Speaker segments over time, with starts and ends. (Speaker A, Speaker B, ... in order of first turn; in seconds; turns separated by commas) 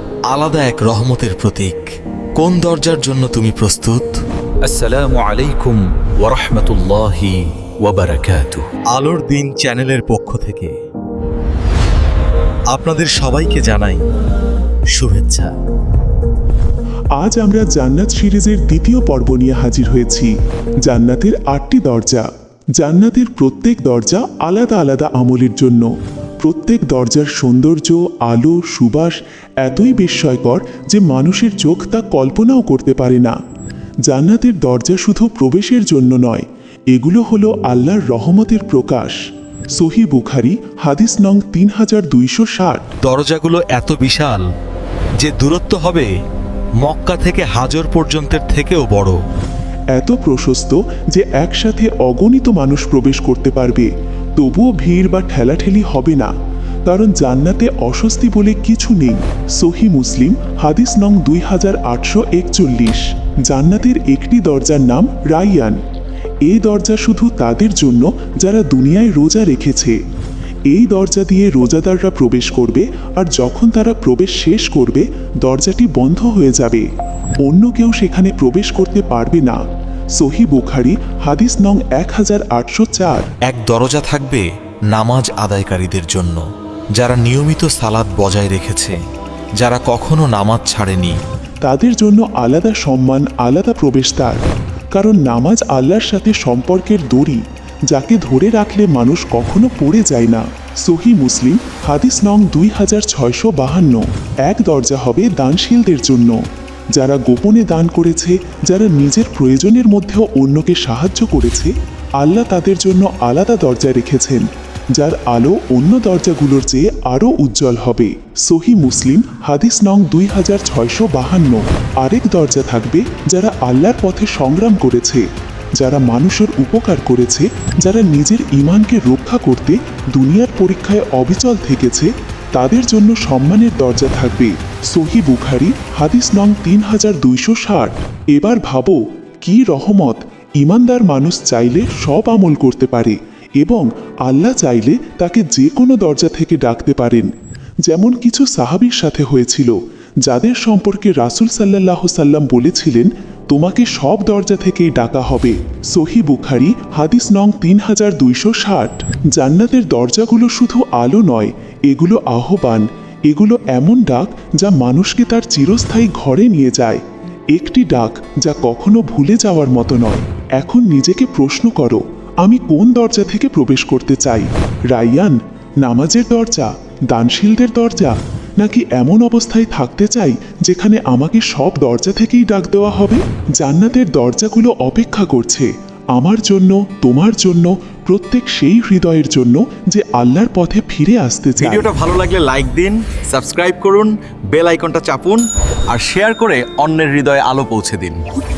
Speaker A: 0.3-4.2, Speaker B: 4.7-7.4, Speaker C: 7.9-8.6, Speaker A: 8.9-10.7, Speaker A: 12.7-14.0, Speaker A: 15.0-15.5, Speaker D: 17.2-20.3, Speaker D: 20.9-22.3, Speaker D: 22.8-25.9, Speaker D: 26.4-33.4, Speaker D: 34.1-39.2, Speaker D: 39.8-42.9, Speaker A: 43.0-44.5, Speaker A: 45.2-46.1, Speaker A: 46.8-49.2, Speaker D: 50.0-56.3, Speaker D: 56.9-65.8, Speaker D: 66.5-70.0, Speaker D: 70.7-76.9, Speaker D: 77.5-79.6, Speaker D: 80.2-83.3, Speaker A: 83.5-86.4, Speaker A: 87.0-89.0, Speaker A: 89.6-91.2, Speaker D: 91.7-94.4, Speaker D: 95.0-106.4, Speaker D: 107.0-125.2, Speaker D: 125.8-147.3, Speaker D: 147.9-149.7, Speaker D: 150.2-167.0, Speaker D: 167.5-191.9, Speaker C: 191.6-195.4, Speaker A: 192.0-194.1, Speaker A: 194.8-195.1, Speaker C: 195.9-198.2, Speaker A: 196.0-196.7